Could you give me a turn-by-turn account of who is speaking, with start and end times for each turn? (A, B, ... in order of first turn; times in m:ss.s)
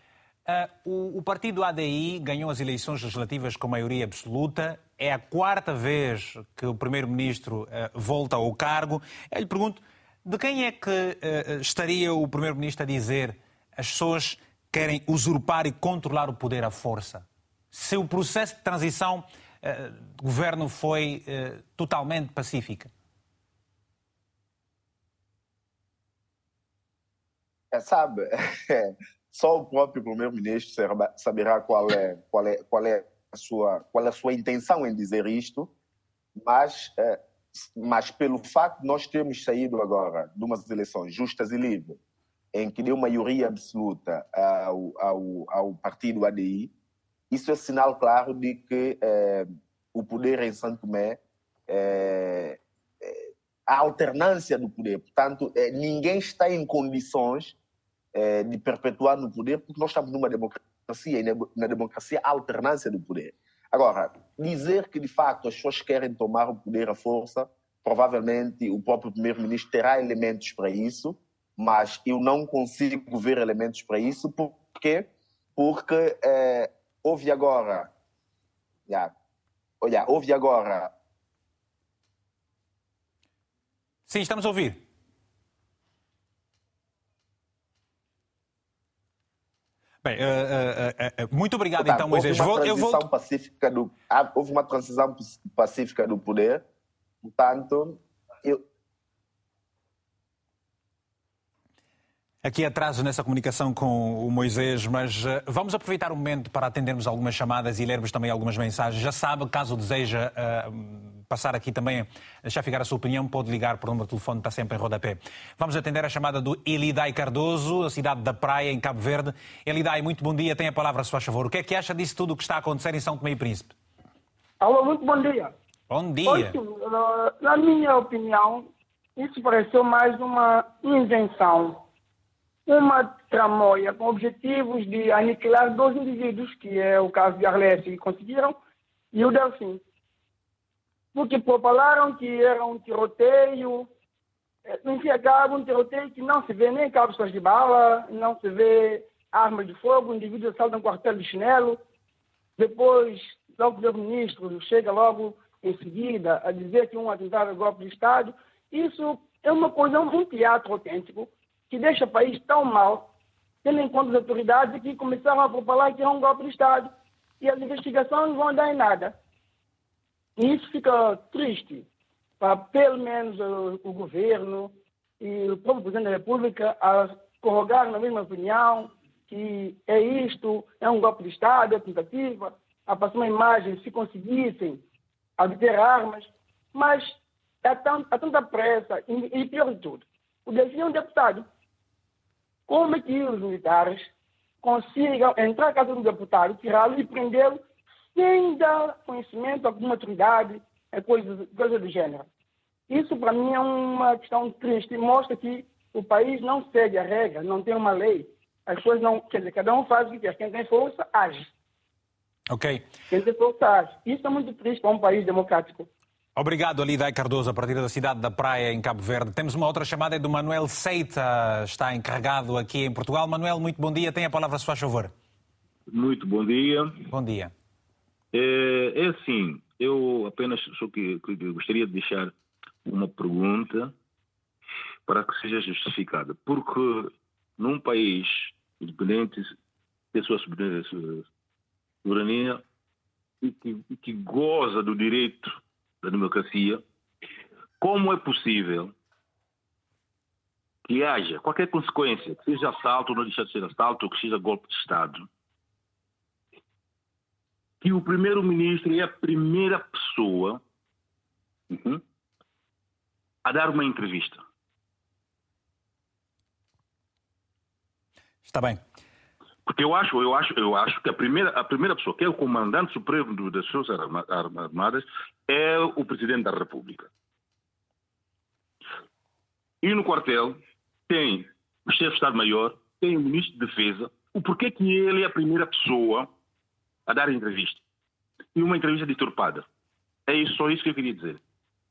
0:00.5-0:22.9 A
0:27.7-0:35.7 B
0:36.4-0:42.0 B
0:42.5-0:46.7 B
0:47.3-0:57.6 B
0:58.1-1:17.9 B
1:18.9-1:19.1 B
1:19.8-1:20.9 B
1:24.1-1:24.8 A
1:30.0-1:33.0 A
1:31.8-1:36.6 B
1:37.2-1:38.6 B
1:42.4-2:03.7 A
2:04.6-2:05.5 C
2:05.9-2:06.6 A
2:06.2-2:11.8 C
2:12.7-2:18.6 C
2:19.1-2:19.8 C
2:21.1-2:23.9 C
2:24.7-2:31.8 C
2:32.6-2:43.1 C
2:43.6-2:49.2 C
2:50.4-2:51.9 C
2:52.4-3:04.8 C
3:05.4-3:11.5 C
3:12.7-3:14.1 C
3:14.6-3:17.6 C
3:18.2-3:22.3 C
3:22.9-3:31.5 C
3:32.5-3:32.9 A
3:33.1-3:35.9 C
3:36.4-3:45.1 A
3:45.9-3:47.0 D
3:47.1-3:47.5 A
3:48.3-3:52.3 D
3:52.8-3:53.9 D
3:55.1-3:59.5 D
4:00.1-4:01.3 D
4:02.0-4:02.6 D
4:03.4-4:06.8 D
4:07.8-4:08.9 D
4:10.9-4:15.3 D
4:17.8-4:20.6 D
4:21.7-4:22.0 D
4:23.4-4:24.4 D
4:28.5-4:28.8 A
4:29.7-4:37.1 D
4:39.8-4:46.3 D
4:47.1-4:47.8 D
4:48.6-4:49.7 D
4:50.3-4:51.4 D